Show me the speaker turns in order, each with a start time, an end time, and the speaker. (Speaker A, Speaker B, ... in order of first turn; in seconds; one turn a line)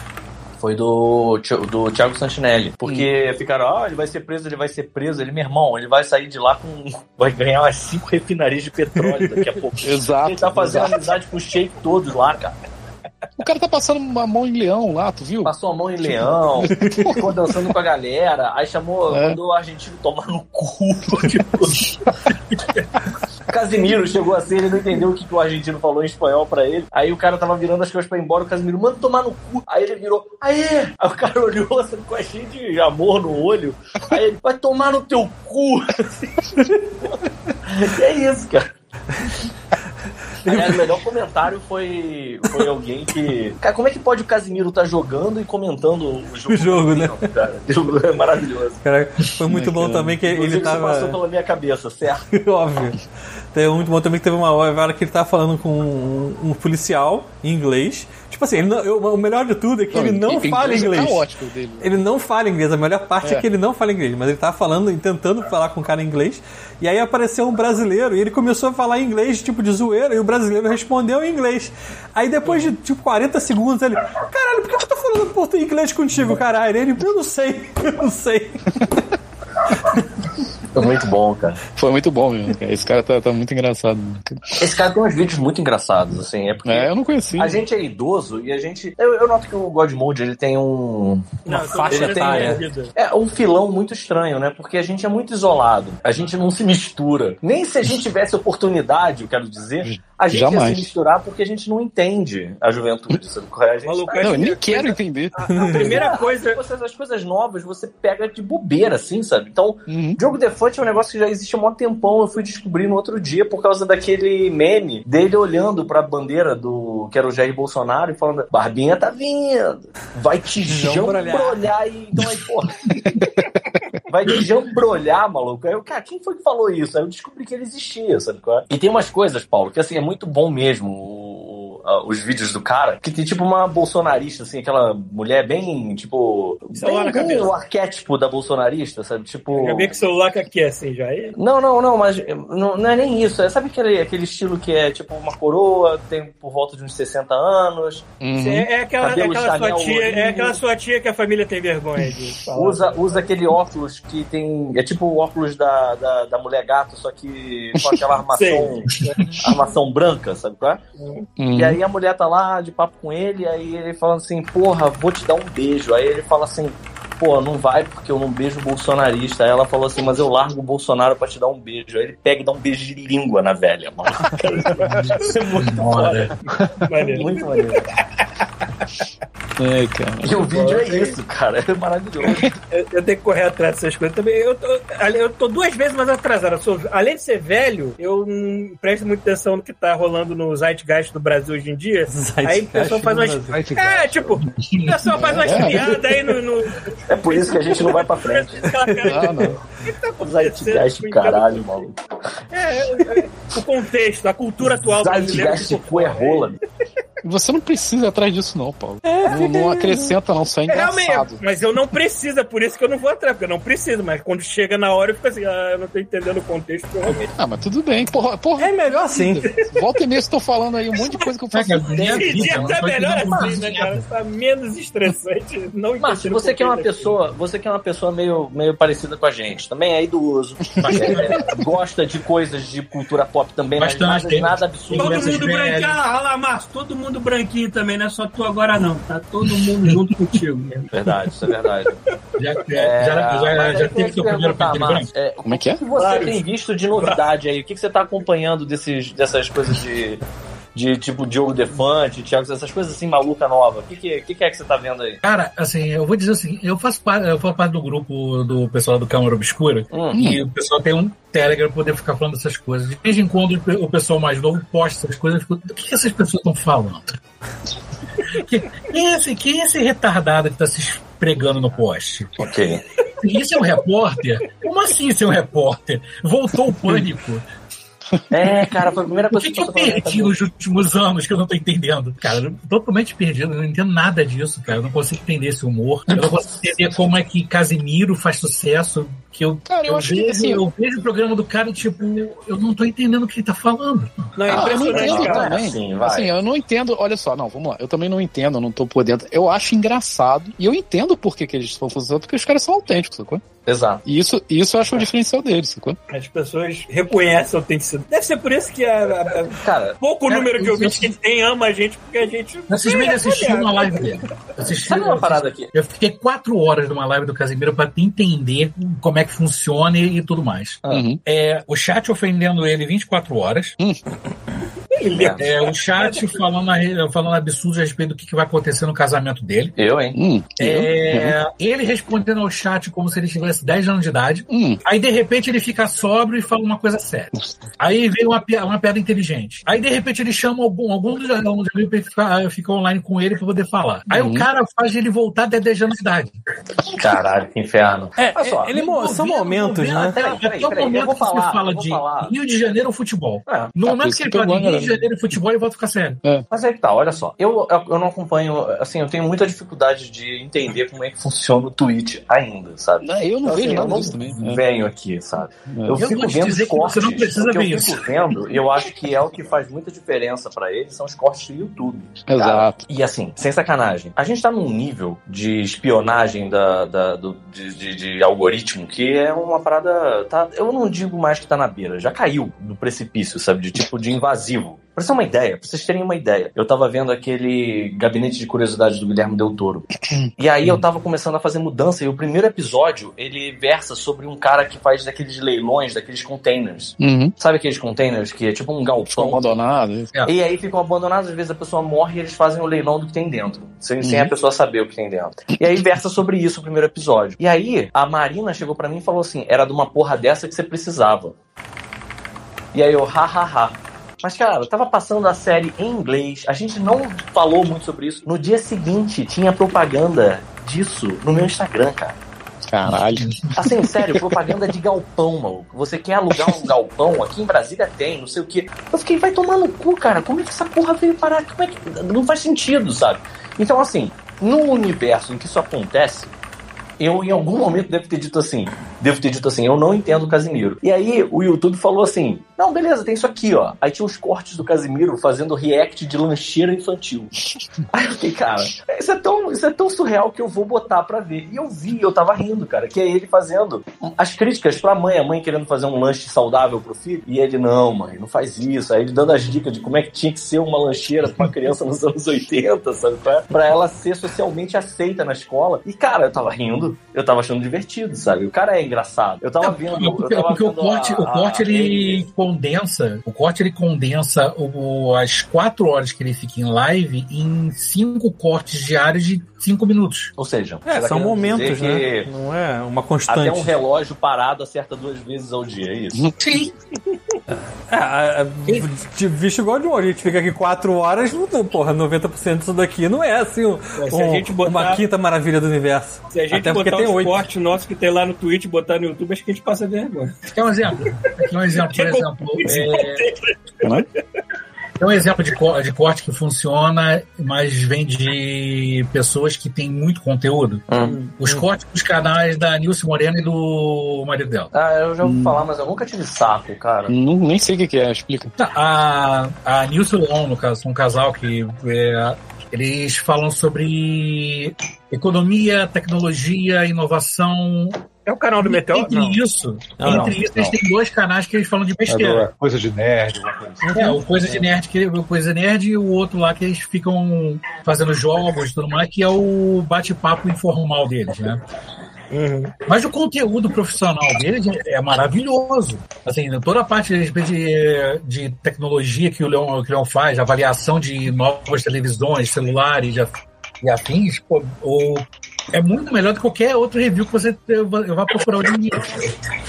Speaker A: 0.6-12.6
Speaker B: 9.0-9.5
Speaker C: 9.8-11.0
Speaker C: 13.4-17.5
Speaker A: 15.4-21.9
Speaker C: 19.1-19.4
Speaker A: 23.5-38.7
Speaker B: 40.5-40.9
Speaker A: 40.5-48.8
Speaker B: 46.5-47.2
Speaker B: 48.8-51.2
Speaker C: 49.4-50.2
Speaker A: 50.2-52.3
Speaker B: 52.3-53.0
Speaker B: 53.5-61.3
Speaker C: 59.9-62.0
Speaker B: 61.8-78.8
Speaker A: 80.7-81.6
Speaker C: 81.8-84.6
Speaker A: 84.6-104.5
Speaker C: 86.7-87.6
Speaker D: 91.5-93.0
Speaker B: 91.9-92.6
Speaker C: 99.8-100.9
Speaker D: 103.8-106.6
Speaker C: 104.2-105.4
Speaker B: 105.5-106.0
Speaker A: 105.6-123.0
Speaker C: 109.9-110.2
Speaker B: 120.7-121.6
Speaker A: 124.1-139.9
Speaker D: 136.8-137.5
Speaker D: 139.5-141.4
Speaker A: 141.4-148.1
Speaker C: 148.2-148.7
Speaker D: 148.3-153.3
Speaker A: 149.0-150.6
Speaker A: 152.6-160.8
Speaker D: 158.3-159.2
Speaker E: 158.9-159.3
Speaker D: 161.0-161.2
Speaker C: 161.4-161.8
Speaker A: 161.5-176.3
Speaker D: 174.7-175.3
Speaker E: 174.8-176.3
Speaker D: 176.5-177.5
Speaker A: 176.9-177.9
Speaker D: 178.2-178.4
Speaker C: 179.6-180.5
Speaker A: 180.2-182.5
Speaker D: 180.5-181.2
Speaker C: 182.3-182.5
Speaker D: 182.7-201.8
Speaker B: 192.1-193.6
Speaker F: 193.5-194.4
Speaker E: 194.4-196.3
Speaker C: 195.4-195.8
Speaker A: 197.1-198.7
Speaker C: 199.1-199.6
Speaker A: 200.2-202.0
Speaker D: 202.5-206.5
Speaker A: 204.9-206.6
Speaker C: 207.2-211.4
Speaker B: 209.1-210.1
Speaker D: 210.7-217.3
Speaker C: 217.3-222.6
Speaker B: 218.6-219.5
Speaker E: 221.5-224.0
Speaker D: 221.9-227.2
Speaker A: 222.3-222.8
Speaker A: 226.0-235.4
Speaker E: 230.8-231.6
Speaker C: 230.8-231.2
Speaker E: 233.8-236.0
Speaker D: 234.9-240.9
Speaker E: 239.5-240.0
Speaker A: 240.9-241.9
Speaker E: 242.4-245.1
Speaker A: 242.8-250.2
Speaker C: 245.4-245.8
Speaker D: 246.0-246.4
Speaker D: 246.9-247.3
Speaker A: 250.8-255.2
Speaker E: 255.2-267.2
Speaker A: 259.9-260.3
Speaker C: 260.1-260.4
Speaker E: 268.2-272.3
Speaker A: 272.4-272.8
Speaker E: 273.2-277.4
Speaker A: 278.3-280.3
Speaker E: 279.3-294.5
Speaker C: 289.7-290.6
Speaker D: 294.4-295.6
Speaker C: 294.5-303.4
Speaker A: 294.5-296.4
Speaker A: 303.7-304.0
Speaker C: 304.1-306.0
Speaker D: 306.1-314.2
Speaker A: 309.6-310.0
Speaker E: 310.3-311.1
Speaker E: 312.7-323.8
Speaker A: 314.8-315.7
Speaker C: 320.9-321.2
Speaker D: 324.9-326.3
Speaker A: 325.1-325.5
Speaker E: 325.4-329.8
Speaker A: 329.8-330.9
Speaker C: 330.1-331.4
Speaker E: 330.6-346.3
Speaker C: 334.5-334.8
Speaker C: 344.1-344.5
Speaker A: 346.9-348.8
Speaker B: 348.2-350.2
Speaker E: 348.7-356.2
Speaker A: 350.1-352.3
Speaker A: 353.5-353.7
Speaker C: 353.9-355.1
Speaker A: 356.5-389.9
Speaker C: 363.0-364.6
Speaker C: 365.7-366.0
Speaker E: 366.0-368.0
Speaker C: 372.3-372.8
Speaker C: 390.2-390.8
Speaker A: 390.4-399.5
Speaker C: 397.0-397.4
Speaker C: 399.1-400.1
Speaker A: 400.3-411.4
Speaker C: 404.0-404.3
Speaker A: 412.7-422.2
Speaker C: 422.7-424.5
Speaker E: 423.1-423.6
Speaker A: 423.6-436.3
Speaker C: 426.3-426.6
Speaker A: 437.0-447.3
Speaker A: 447.9-472.2
Speaker E: 469.6-480.3
Speaker A: 480.4-482.3
Speaker B: 480.9-483.8
Speaker A: 483.3-486.3
Speaker E: 486.4-486.7
Speaker B: 487.9-497.4
Speaker D: 494.0-495.0
Speaker D: 496.3-500.4
Speaker E: 500.5-503.3
Speaker D: 501.7-503.9
Speaker E: 505.0-514.7
Speaker A: 510.9-511.2
Speaker D: 511.0-511.3
Speaker A: 514.7-517.1
Speaker C: 515.2-515.7
Speaker C: 517.1-518.5
Speaker E: 518.6-528.0
Speaker D: 528.3-529.4
Speaker E: 528.6-532.5
Speaker B: 530.0-530.4
Speaker F: 530.0-530.8
Speaker F: 532.1-534.1
Speaker B: 533.8-534.2
Speaker E: 533.9-541.6
Speaker D: 542.3-542.8
Speaker E: 542.9-559.4